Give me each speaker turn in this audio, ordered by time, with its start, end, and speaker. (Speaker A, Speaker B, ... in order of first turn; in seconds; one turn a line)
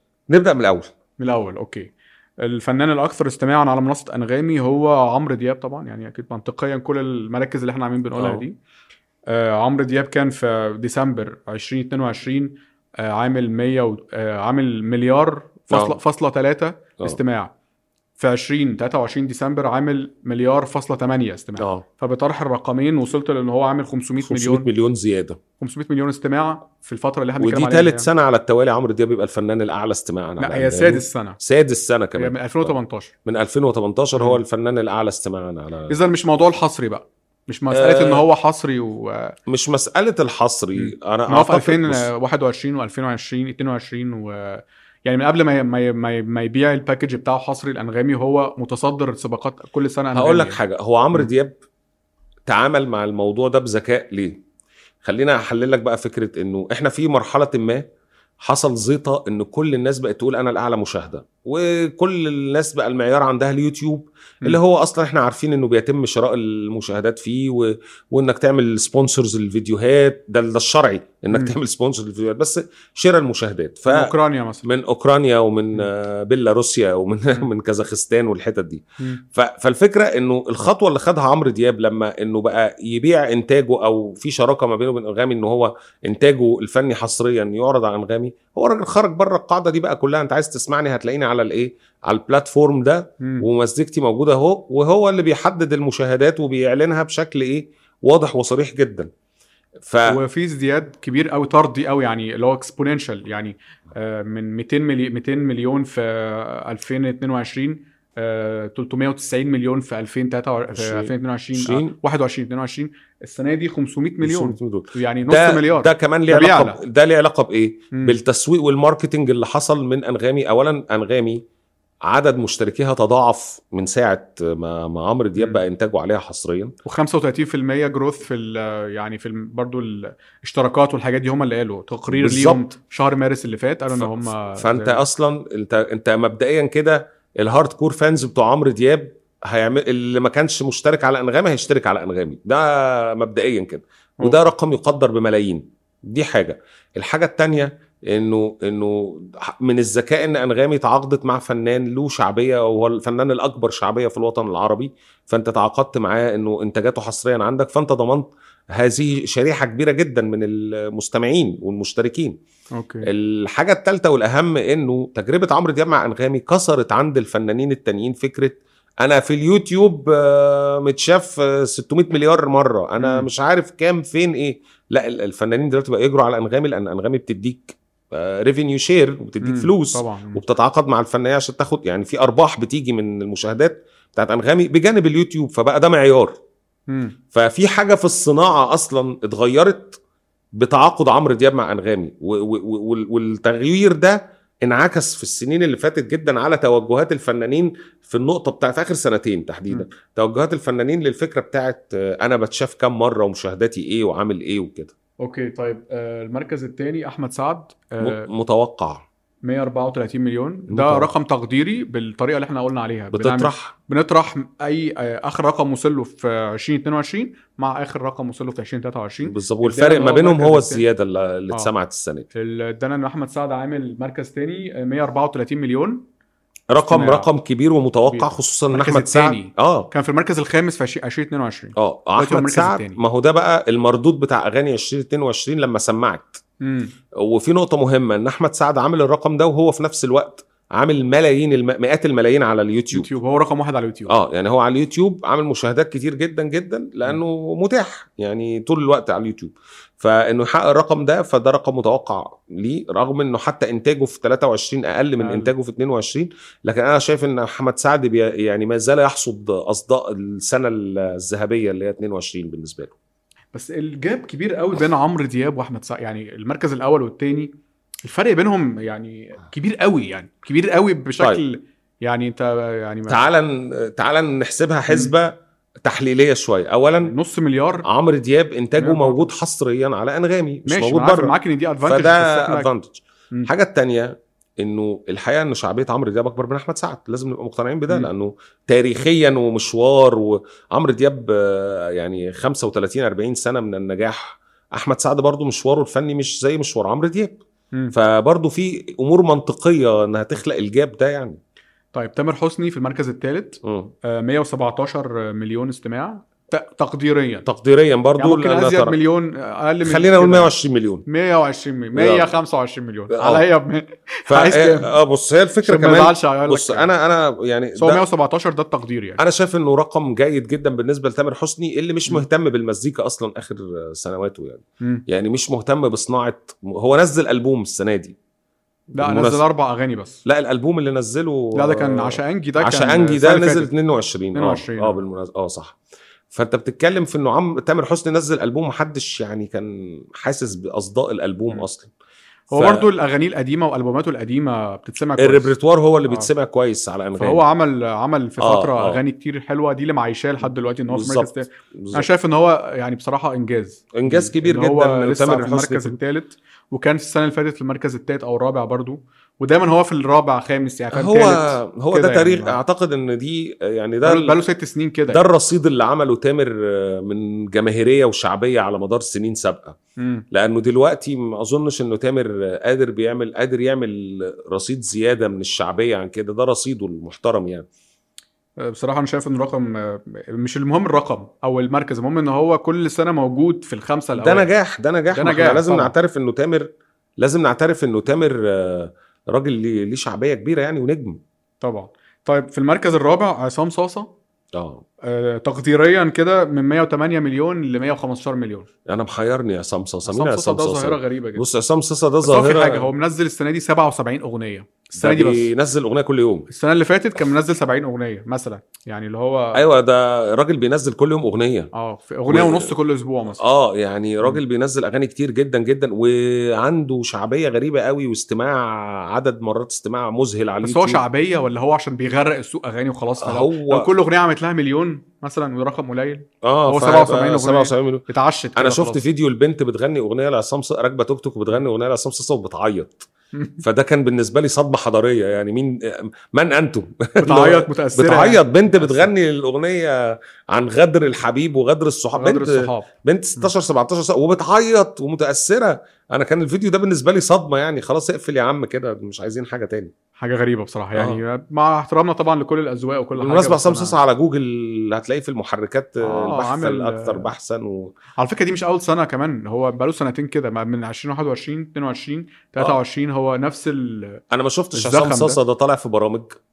Speaker A: 0.3-0.9
Speaker B: 1.2-8.6
Speaker A: 8.2-8.4
Speaker B: 9.3-17.5
Speaker A: 15.7-16.0
Speaker B: 18.2-24.7
Speaker A: 21.6-21.9
Speaker A: 24.2-25.4
Speaker B: 25.6-28.1
Speaker A: 27.4-32.8
Speaker B: 30.4-31.4
Speaker B: 32.2-33.1
Speaker A: 33.3-36.0
Speaker B: 34.1-34.4
Speaker B: 35.9-39.4
Speaker A: 37.7-38.2
Speaker A: 39.5-42.1
Speaker B: 40.8-50.6
Speaker A: 50.1-51.6
Speaker A: 52.5-54.4
Speaker A: 55.0-57.9
Speaker A: 58.4-74.1
Speaker B: 73.9-74.7
Speaker A: 74.6-99.1
Speaker B: 93.2-93.5
Speaker A: 99.9-100.2
Speaker B: 100.1-116.8
Speaker A: 110.7-112.0
Speaker A: 114.2-121.4
Speaker A: 122.0-126.8
Speaker B: 125.4-125.6
Speaker B: 126.8-135.0
Speaker A: 132.1-132.7
Speaker A: 133.9-162.4
Speaker B: 144.2-144.5
Speaker B: 162.8-163.1
Speaker A: 163.1-186.4
Speaker B: 173.0-173.3
Speaker B: 179.4-180.4
Speaker B: 186.9-187.2
Speaker A: 187.3-190.0
Speaker A: 190.6-204.9
Speaker B: 205.2-208.3
Speaker A: 208.0-209.1
Speaker B: 209.4-220.8
Speaker A: 210.7-211.1
Speaker A: 213.1-213.8
Speaker A: 219.2-222.3
Speaker B: 222.3-226.0
Speaker A: 226.7-229.9
Speaker B: 226.9-227.3
Speaker B: 228.1-233.0
Speaker A: 231.8-236.4
Speaker B: 236.6-236.9
Speaker A: 237.2-243.1
Speaker B: 242.9-244.2
Speaker A: 244.1-262.9
Speaker B: 255.2-255.5
Speaker B: 263.5-267.5
Speaker B: 268.1-273.2
Speaker A: 273.1-275.3
Speaker A: 275.8-277.1
Speaker B: 277.0-277.9
Speaker A: 277.9-281.4
Speaker B: 278.8-279.3
Speaker B: 280.7-282.7
Speaker A: 281.9-297.4
Speaker A: 297.9-301.4
Speaker B: 301.9-307.5
Speaker A: 303.6-303.9
Speaker A: 307.5-309.0
Speaker B: 308.2-310.5
Speaker A: 309.8-311.1
Speaker B: 311.1-314.9
Speaker A: 311.9-312.3
Speaker A: 313.1-313.4
Speaker A: 314.3-318.0
Speaker B: 315.6-316.9
Speaker B: 317.8-319.2
Speaker A: 319.2-328.2
Speaker A: 328.9-329.4
Speaker B: 329.0-330.2
Speaker A: 330.2-335.8
Speaker B: 331.6-333.7
Speaker B: 334.4-335.0
Speaker A: 336.3-341.9
Speaker B: 342.5-345.5
Speaker A: 342.5-342.9
Speaker A: 345.2-347.4
Speaker B: 347.2-362.6
Speaker A: 348.4-349.0
Speaker A: 350.4-352.1
Speaker A: 353.9-356.0
Speaker A: 360.9-364.4
Speaker B: 364.0-365.2
Speaker A: 365.1-369.8
Speaker B: 370.0-370.3
Speaker A: 370.3-377.7
Speaker B: 378.6-384.5
Speaker A: 384.2-386.7
Speaker B: 385.1-385.9
Speaker A: 387.2-391.2
Speaker B: 391.6-394.1
Speaker A: 394.5-394.8
Speaker B: 395.1-398.7
Speaker A: 398.9-402.9
Speaker B: 400.1-401.4
Speaker B: 402.2-405.5
Speaker A: 405.0-406.5
Speaker B: 406.5-409.6
Speaker A: 409.6-411.7
Speaker B: 411.8-413.4
Speaker A: 412.3-412.7
Speaker A: 413.4-421.0
Speaker B: 420.6-429.0
Speaker A: 423.2-423.9
Speaker A: 426.4-433.1
Speaker B: 433.3-433.6
Speaker A: 433.6-449.9
Speaker B: 437.2-439.1
Speaker B: 442.2-443.5
Speaker B: 450.2-454.0
Speaker A: 450.9-451.2
Speaker A: 453.2-457.9
Speaker B: 456.1-457.3
Speaker B: 458.2-464.2
Speaker A: 464.3-466.4
Speaker B: 464.7-465.4